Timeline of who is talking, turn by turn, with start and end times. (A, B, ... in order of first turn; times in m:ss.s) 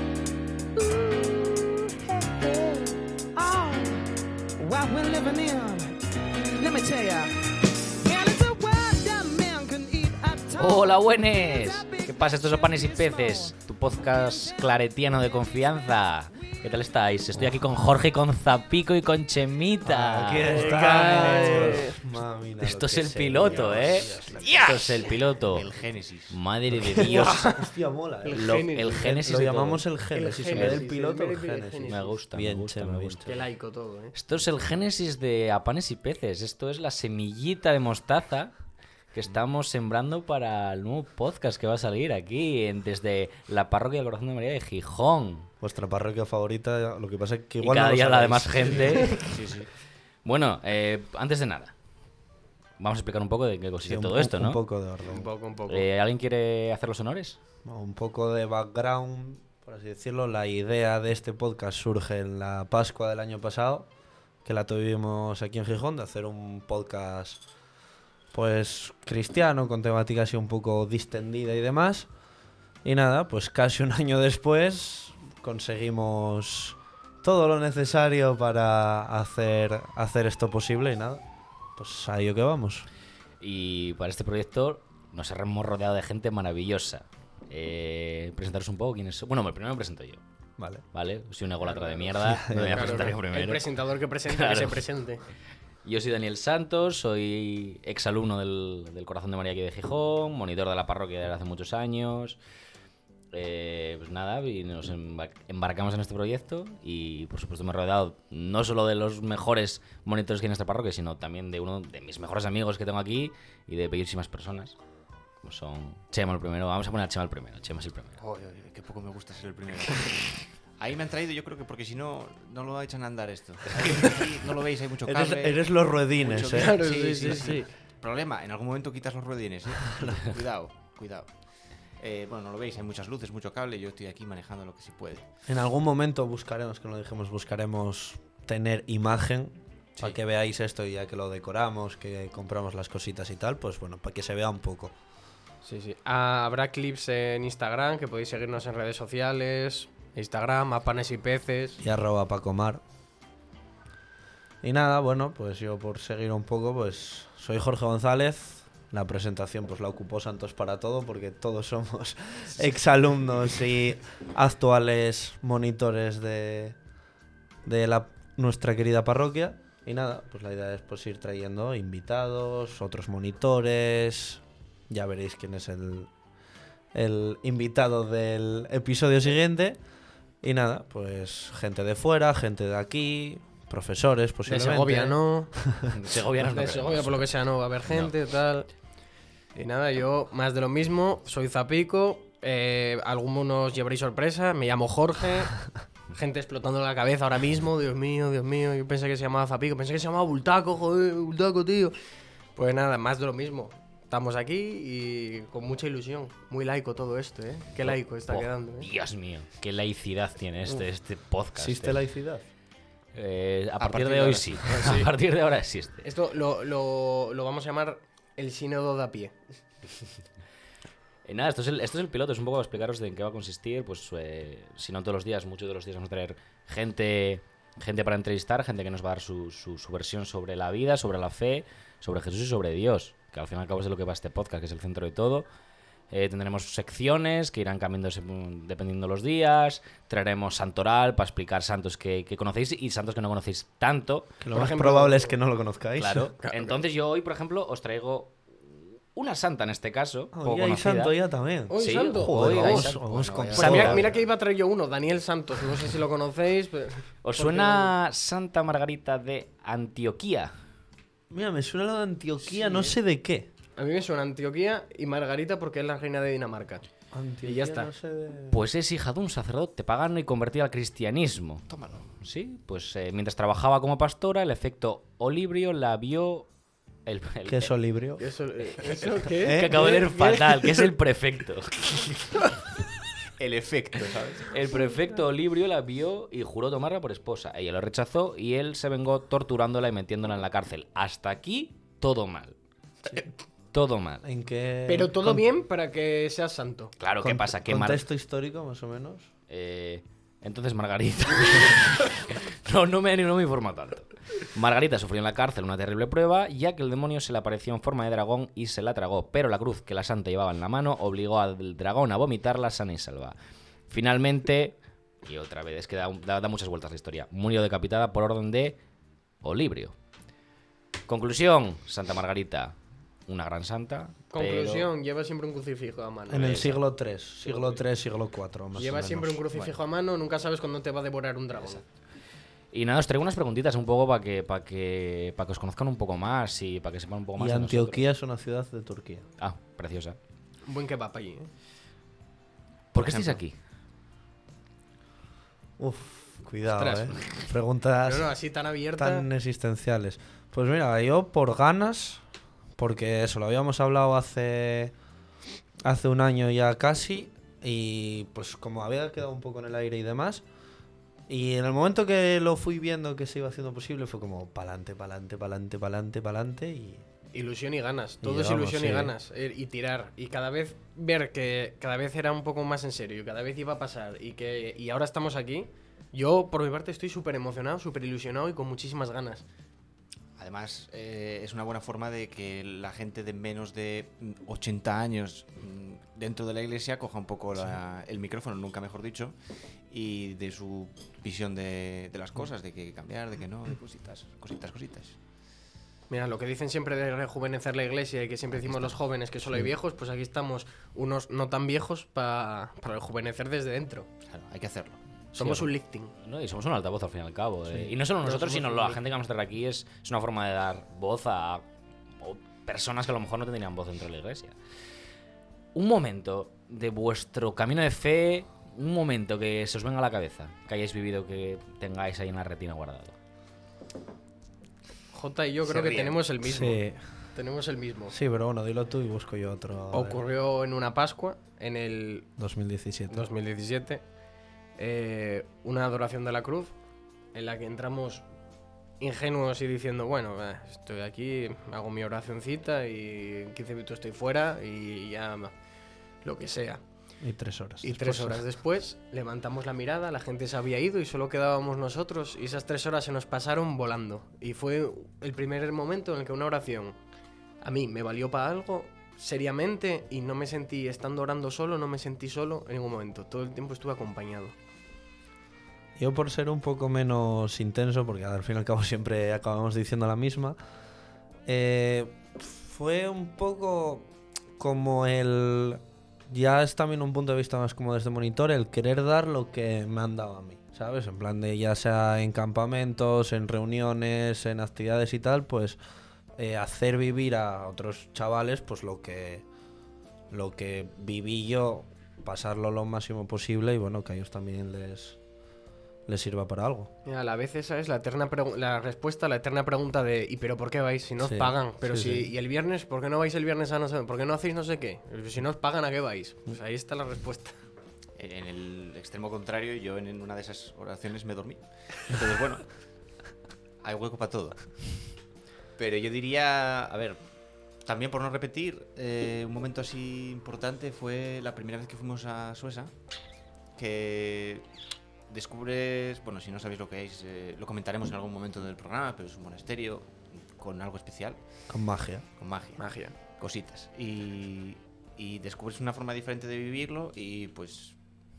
0:00.8-0:13.6 A
0:10.5-0:21.8 B
0:14.1-0:14.6 A
0:19.8-0:25.0 C
0:20.4-0:22.0 D
0:22.6-0:25.7 B
0:23.8-0:24.8 E
0:25.5-0:26.4 E
0:26.3-0:27.5 B
0:26.8-0:27.7 D
0:27.0-0:33.4 C
0:28.2-0:29.1 D
0:28.3-0:30.0 B
0:30.1-0:32.2 D
0:30.5-0:30.8 B
0:31.9-0:33.4 B
0:33.2-0:34.1 D
0:34.1-0:38.5 B
0:39.1-0:45.5 B
0:45.6-0:49.2 C
0:47.6-0:49.2 B
0:49.2-0:49.7 E
0:50.2-0:51.7 B
0:52.8-0:54.6 B
0:53.8-0:55.3 C
0:55.0-0:55.8 D
0:55.7-0:57.4 B
0:57.6-1:03.9 C
1:04.4-1:07.4 C
1:08.3-1:12.1 C
1:12.8-1:21.2 C
1:21.8-1:22.9 C
1:23.4-1:30.2 B
1:30.6-1:30.8 C
1:30.9-1:33.7 B
1:31.6-1:32.1 D
1:32.2-1:33.1 C
1:32.6-1:35.2 D
1:34.2-1:34.9 B
1:35.8-1:42.4 B
1:43.3-1:54.7 B
1:55.4-1:58.2 B
1:58.2-2:11.3 E
2:05.0-2:07.6 C
2:06.5-2:07.7 D
2:12.0-2:15.2 E
2:15.5-2:24.9 C
2:25.6-2:31.8 D
2:31.8-2:32.8 C
2:34.6-2:46.8 C
2:47.6-2:56.1 C
2:56.9-2:59.8 C
3:00.4-3:05.8 C
3:04.4-3:05.6 D
3:05.9-3:07.3 B
3:06.4-3:08.7 D
3:07.8-3:08.1 B
3:09.5-3:15.6 D
3:16.1-3:21.9 D
3:22.5-3:28.9 D
3:27.8-3:32.0 B
3:31.5-3:32.4 C
3:33.1-3:36.1 B
3:33.8-3:34.8 E
3:34.8-3:35.1 D
3:36.0-3:39.3 D
3:41.2-3:55.5 B
3:56.1-4:04.4 B
4:04.4-4:06.3 C
4:04.5-4:05.4 D
4:06.0-4:11.2 B
4:06.4-4:06.7 D
4:10.3-4:14.0 C
4:11.7-4:12.9 D
4:11.7-4:14.1 B
4:13.0-4:14.2 E
4:13.5-4:17.9 D
4:17.2-4:20.5 B
4:21.3-4:23.5 C
4:22.4-4:23.0 D
4:23.8-4:26.8 D
4:27.1-4:28.6 C
4:27.4-4:27.9 D
4:28.5-4:36.5 B
4:31.7-4:32.1 E
4:37.0-4:37.7 B
4:37.5-4:38.2 C
4:38.2-4:40.6 D
4:39.3-4:42.5 B
4:39.4-4:39.7 C
4:43.4-4:44.6 E
4:44.5-4:52.6 B
4:53.7-4:54.2 B
4:54.2-4:55.4 C
4:54.8-4:56.9 D
4:57.0-4:58.0 B
4:57.2-4:59.3 C
4:59.5-5:13.4 B
5:13.9-5:18.8 B
5:19.4-5:19.9 B
5:21.1-5:22.7 B
5:23.3-5:24.9 B
5:24.3-5:26.8 D
5:26.3-5:29.2 C
5:26.3-5:26.8 B
5:27.4-5:27.8 D
5:28.8-5:31.8 D
5:28.8-5:29.4 E
5:32.7-5:38.1 B
5:37.4-5:39.2 C
5:39.4-5:40.2 B
5:40.6-5:41.5 D
5:42.9-5:43.4 E
5:42.9-5:43.6 B
5:45.8-5:48.4 C
5:46.7-5:47.5 D
5:48.0-5:49.3 D
5:49.0-5:52.2 C
5:52.8-5:54.9 C
5:55.8-6:00.4 C
6:01.3-6:07.0 C
6:07.3-6:19.4 D
6:08.2-6:09.1 C
6:20.4-6:29.4 E
6:29.9-6:35.2 E
6:36.1-6:44.1 D
6:38.6-6:38.9 E
6:44.2-6:45.0 E
6:45.3-6:46.1 D
6:45.3-6:51.6 B
6:48.2-6:49.0 D
6:52.2-6:54.6 B
6:55.7-7:03.1 B
7:05.1-7:06.8 D
7:05.6-7:06.2 E
7:06.4-7:07.0 C
7:07.3-7:08.1 D
7:08.1-7:10.2 C
7:09.9-7:12.3 D
7:12.4-7:13.3 C
7:13.1-7:14.0 D
7:14.8-7:16.7 D
7:17.3-7:18.2 D
7:19.0-7:25.5 D
7:26.2-7:26.8 D
7:27.2-7:28.4 C
7:27.8-7:37.0 D
7:37.6-7:44.6 D
7:46.0-7:50.6 C
7:51.4-8:05.8 C
8:06.4-8:09.4 C
8:10.3-8:15.2 C
8:16.1-8:16.9 C
8:17.0-8:27.6 D
8:21.2-8:22.3 C
8:28.2-8:32.7 E
8:33.8-8:35.0 E
8:35.8-8:37.2 E
8:37.8-8:42.9 E
8:43.8-8:44.6 E
8:45.3-8:51.4 E
8:51.7-8:52.2 C
8:52.4-8:52.8 E
8:52.8-8:53.1 D
8:53.4-8:58.0 E